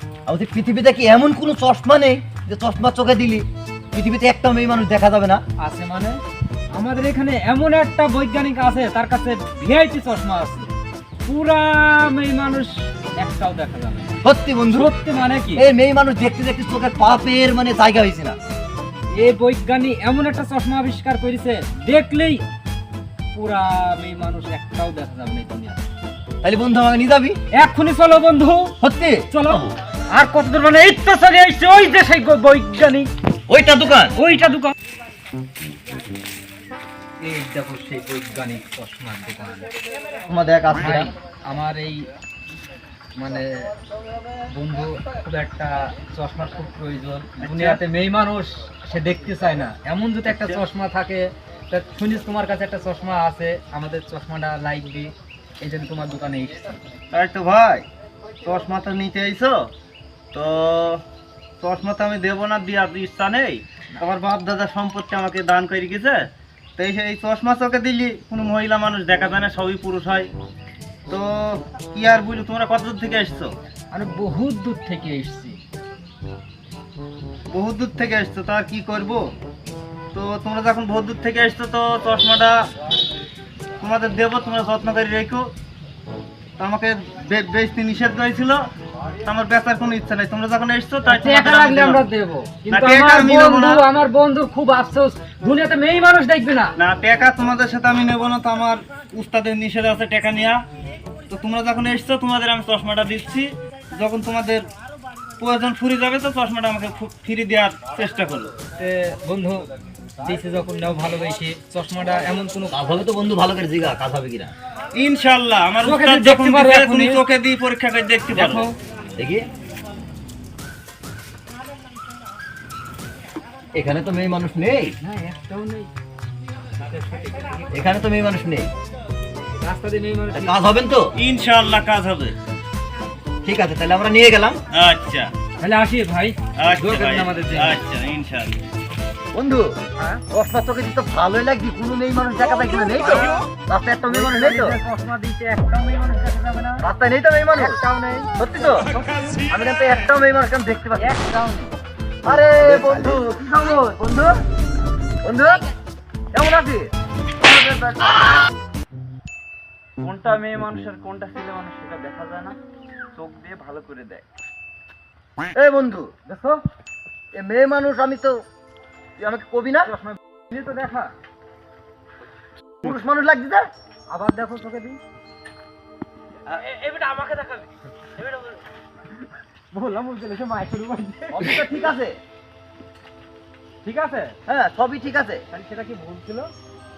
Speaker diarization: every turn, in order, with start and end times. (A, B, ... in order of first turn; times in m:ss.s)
0:00.2-0:05.4 A
0:05.6-0:06.2 B
0:06.7-0:10.7 B
0:11.2-0:14.2 B
0:14.2-0:14.9 A
0:14.7-0:15.6 B
0:15.6-0:18.4 A
0:19.2-0:22.4 B
0:23.3-0:25.9 B
0:26.4-0:27.4 A
0:27.5-0:28.7 B
0:28.8-0:29.7 A
0:29.3-0:33.1 B
0:33.5-0:34.1 A
0:34.2-0:34.7 B
0:37.2-0:39.7 B
0:40.3-0:41.1 A
0:40.7-0:42.0 B
0:43.2-0:43.7 B
0:44.5-0:56.8 B
0:47.4-0:47.8 C
0:50.3-0:50.6 C
0:57.1-0:57.8 C
0:58.4-0:59.7 C
1:00.3-1:01.0 C
1:01.6-1:10.3 C
1:11.1-1:13.5 C
1:13.9-1:15.6 B
1:17.5-1:19.2 C
1:20.1-1:22.6 C
1:23.8-1:25.5 C
1:26.6-1:28.6 C
1:29.2-1:32.0 C
1:31.0-1:36.7 B
1:32.7-1:33.8 C
1:36.8-1:40.6 C
1:41.3-1:44.6 C
1:45.4-1:48.5 C
1:48.8-1:49.6 B
1:50.2-1:52.8 B
1:52.7-1:54.5 A
1:54.9-1:58.7 C
1:55.8-1:57.2 B
1:58.3-1:58.7 B
1:59.2-1:59.4 A
2:03.7-2:04.9 A
2:05.0-2:05.9 B
2:06.8-2:07.7 B
2:07.7-2:08.7 A
2:09.6-2:10.7 B
2:10.3-2:11.1 A
2:11.2-2:12.3 C
2:13.4-2:14.6 A
2:14.7-2:15.3 C
2:15.6-2:17.8 B
2:16.6-2:18.6 C
2:19.3-2:19.7 A
2:20.0-2:20.2 B
2:20.3-2:24.8 A
2:24.1-2:26.8 B
2:26.8-2:27.8 A
2:27.6-2:28.3 B
2:28.4-2:28.9 A
2:28.8-2:29.4 B
2:29.5-2:31.2 A
2:30.9-2:31.7 B
2:32.2-2:34.3 A
2:32.8-2:33.1 B
2:35.2-2:35.7 A
2:36.3-2:36.9 A
2:37.4-2:38.3 A
2:40.0-2:42.6 C
2:43.2-2:44.2 C
2:45.5-2:46.1 A
2:46.3-2:46.6 B
2:47.3-2:48.4 A
2:49.2-2:49.9 A
2:49.8-2:51.1 B
2:52.8-2:53.6 A
2:54.1-2:55.0 B
2:56.5-2:58.6 B
2:59.7-3:01.9 B
3:01.3-3:02.2 A
3:03.8-3:04.4 B
3:04.5-3:05.4 A
3:05.5-3:06.5 B